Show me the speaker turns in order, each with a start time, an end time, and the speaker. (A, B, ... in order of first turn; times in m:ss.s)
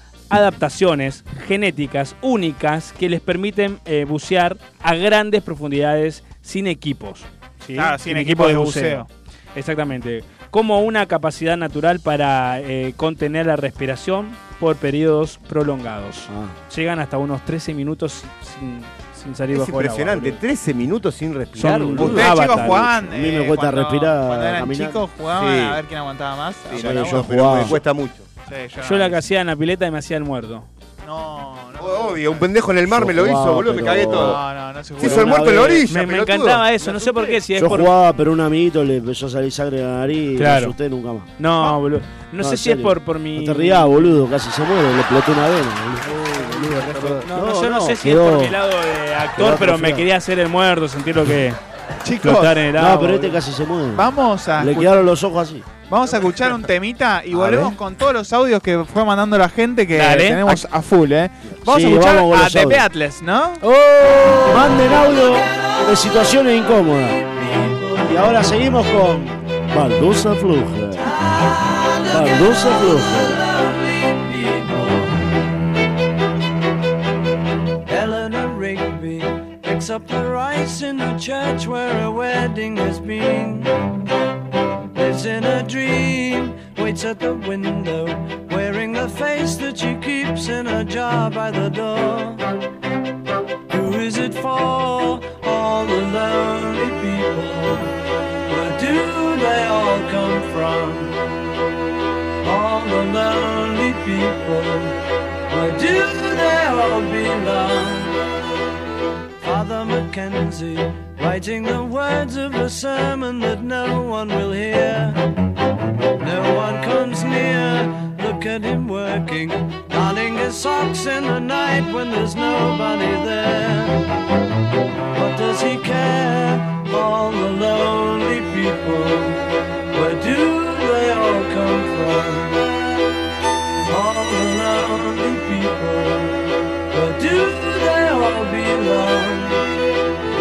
0:00.3-0:20.4 A
0:07.7-0:09.1 B
0:16.3-0:16.5 C
0:19.5-0:22.4 D
0:21.6-0:22.9 A
0:21.9-0:25.0 C
0:22.0-0:27.7 B
0:25.2-0:25.8 D
0:26.7-0:28.3 D
0:26.7-0:27.8 C
0:28.5-0:29.2 B
0:28.8-0:30.7 A
0:31.0-0:32.5 B
0:31.8-0:34.4 D
0:32.9-0:34.4 C
0:34.1-0:35.6 B
0:35.0-0:36.7 D
0:35.0-0:35.8 C
0:35.9-0:37.9 A
0:37.5-0:41.3 C
0:40.4-0:40.7 A
0:41.4-0:44.2 A
0:42.4-0:48.6 C
0:46.5-0:47.2 D
0:47.2-0:51.6 A
0:49.3-0:50.0 C
0:52.0-0:52.7 B
0:52.2-0:53.4 A
0:52.8-0:55.6 C
0:53.9-0:55.0 B
0:55.9-1:03.6 B
0:57.3-0:57.8 C
0:59.9-1:00.6 A
1:01.6-1:02.9 C
1:03.6-1:04.6 A
1:04.5-1:07.4 C
1:04.9-1:06.1 E
1:07.3-1:08.4 E
1:08.0-1:11.0 C
1:11.0-1:15.4 E
1:12.1-1:13.4 C
1:17.8-1:23.9 E
1:24.9-1:32.4 E
1:33.7-1:38.0 E
1:38.5-1:41.1 E
1:42.4-1:45.0 E
1:45.5-1:48.2 E
1:49.4-1:55.2 E
1:56.2-2:04.0 E
2:05.1-2:12.6 E
2:13.9-2:19.6 E